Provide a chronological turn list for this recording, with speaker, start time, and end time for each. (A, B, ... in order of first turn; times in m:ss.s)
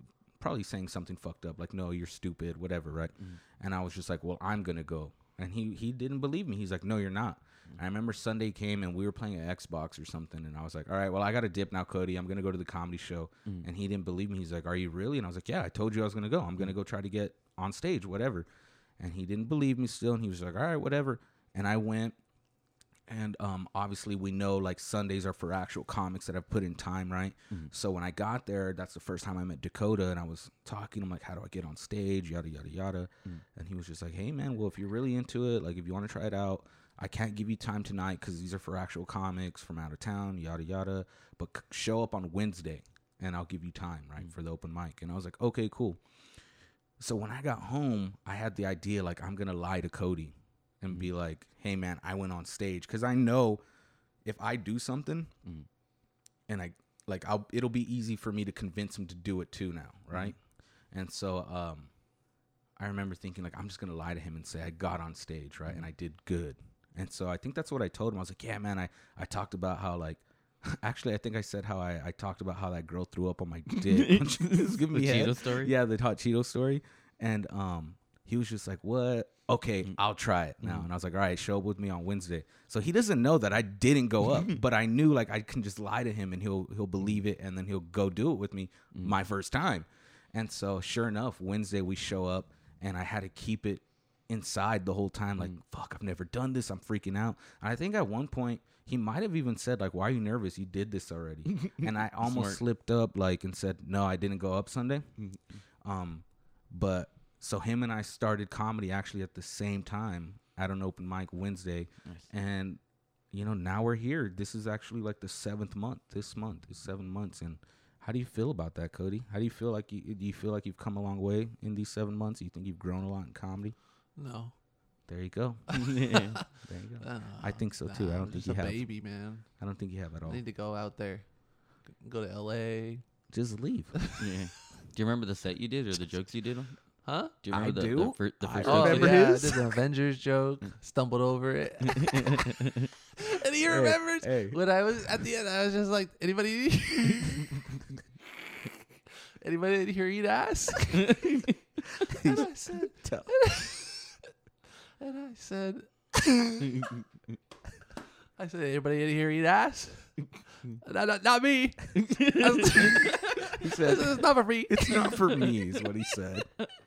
0:00.4-0:18.5 A
0:19.0-0:22.2 A
0:23.1-0:46.0 A
0:47.0-0:53.6 A
0:54.2-0:55.3 A
0:56.5-1:00.4 A
1:00.9-1:01.9 A
1:02.8-1:45.1 A
1:13.7-1:15.7 B
1:41.5-1:42.6 B
1:45.8-1:52.8 A
1:53.3-2:03.7 A
2:04.2-2:04.5 C
2:05.1-2:05.8 A
2:05.7-2:06.4 B
2:05.8-2:06.4 C
2:06.6-2:08.8 A
2:07.0-2:09.4 C
2:09.6-2:10.4 A
2:10.2-2:11.3 C
2:12.0-2:13.0 C
2:13.3-2:13.9 A
2:14.2-2:16.8 B
2:17.0-2:17.3 C
2:17.4-2:19.3 B
2:17.5-2:19.7 A
2:18.6-2:22.5 C
2:22.1-2:22.9 B
2:23.2-2:27.6 C
2:23.7-2:24.6 A
2:29.4-2:31.3 C
2:32.1-2:33.3 A
2:32.1-2:34.2 C
2:35.0-2:36.8 C
2:38.4-2:40.2 C
2:40.8-2:45.3 C
2:42.0-2:43.3 B
2:43.5-2:46.5 A